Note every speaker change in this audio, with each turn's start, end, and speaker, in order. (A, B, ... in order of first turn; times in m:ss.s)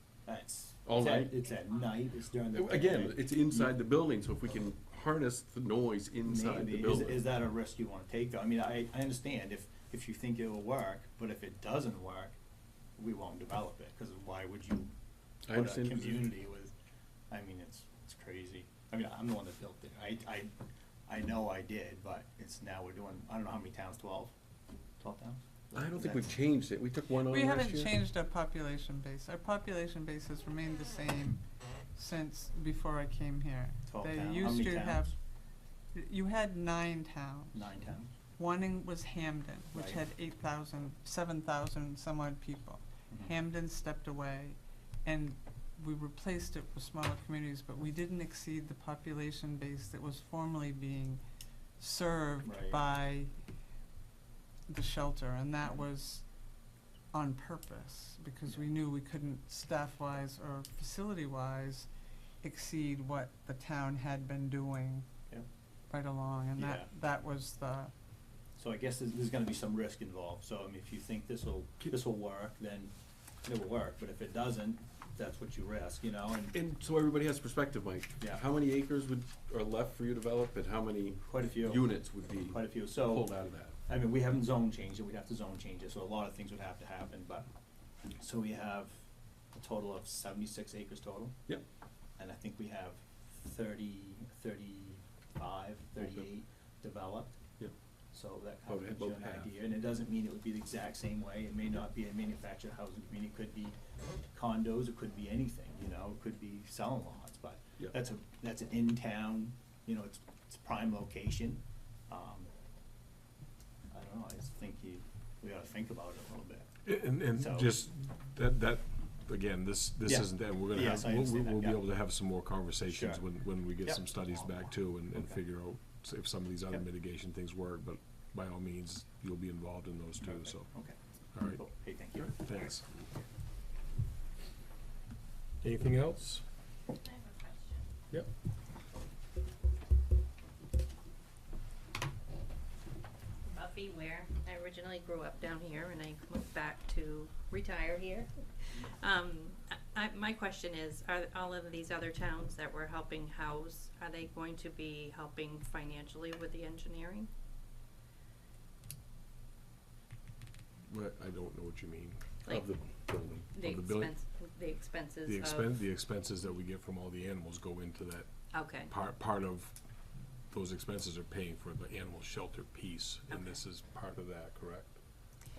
0:00.2-0:03.8 A
0:00.8-0:01.3 B
0:02.5-0:07.3 B
0:06.2-0:12.3 A
0:13.0-0:14.9 A
0:15.4-0:16.3 B
0:15.5-0:16.7 A
0:17.3-0:20.5 A
0:21.1-0:24.3 A
0:25.0-0:26.3 A
0:25.7-0:28.0 B
0:27.3-0:35.1 C
0:33.8-0:35.2 A
0:35.9-0:37.8 C
0:37.5-0:38.1 A
0:38.4-0:51.2 C
0:39.7-0:40.0 A
0:51.8-0:53.3 C
0:52.4-0:52.8 A
0:54.7-1:01.9 C
1:02.4-1:05.1 C
1:05.9-1:07.9 C
1:06.6-1:06.9 A
1:08.6-1:16.5 A
1:16.5-1:23.8 B
1:21.2-1:21.9 A
1:22.5-1:23.3 A
1:23.8-1:27.5 A
1:28.2-1:29.0 A
1:29.5-1:31.4 A
1:32.2-1:37.4 A
1:36.0-1:36.2 B
1:38.1-1:43.8 A
1:38.7-1:39.5 B
1:44.3-1:52.5 A
1:53.9-1:56.7 A
1:56.8-2:10.7 D
1:57.3-1:57.8 A
2:00.0-2:01.8 A
2:02.9-2:03.2 A
2:03.8-2:04.5 A
2:05.1-2:05.4 A
2:10.2-2:13.2 A
2:11.3-2:13.0 D
2:15.6-2:16.4 D
2:17.0-2:17.9 E
2:23.4-2:37.3 E
2:40.9-2:42.7 D
2:42.4-2:42.7 E
2:42.5-2:43.5 B
2:43.5-2:45.7 E
2:43.6-2:44.1 D
2:45.2-2:55.0 D
2:48.5-2:48.9 E
2:53.3-2:53.6 E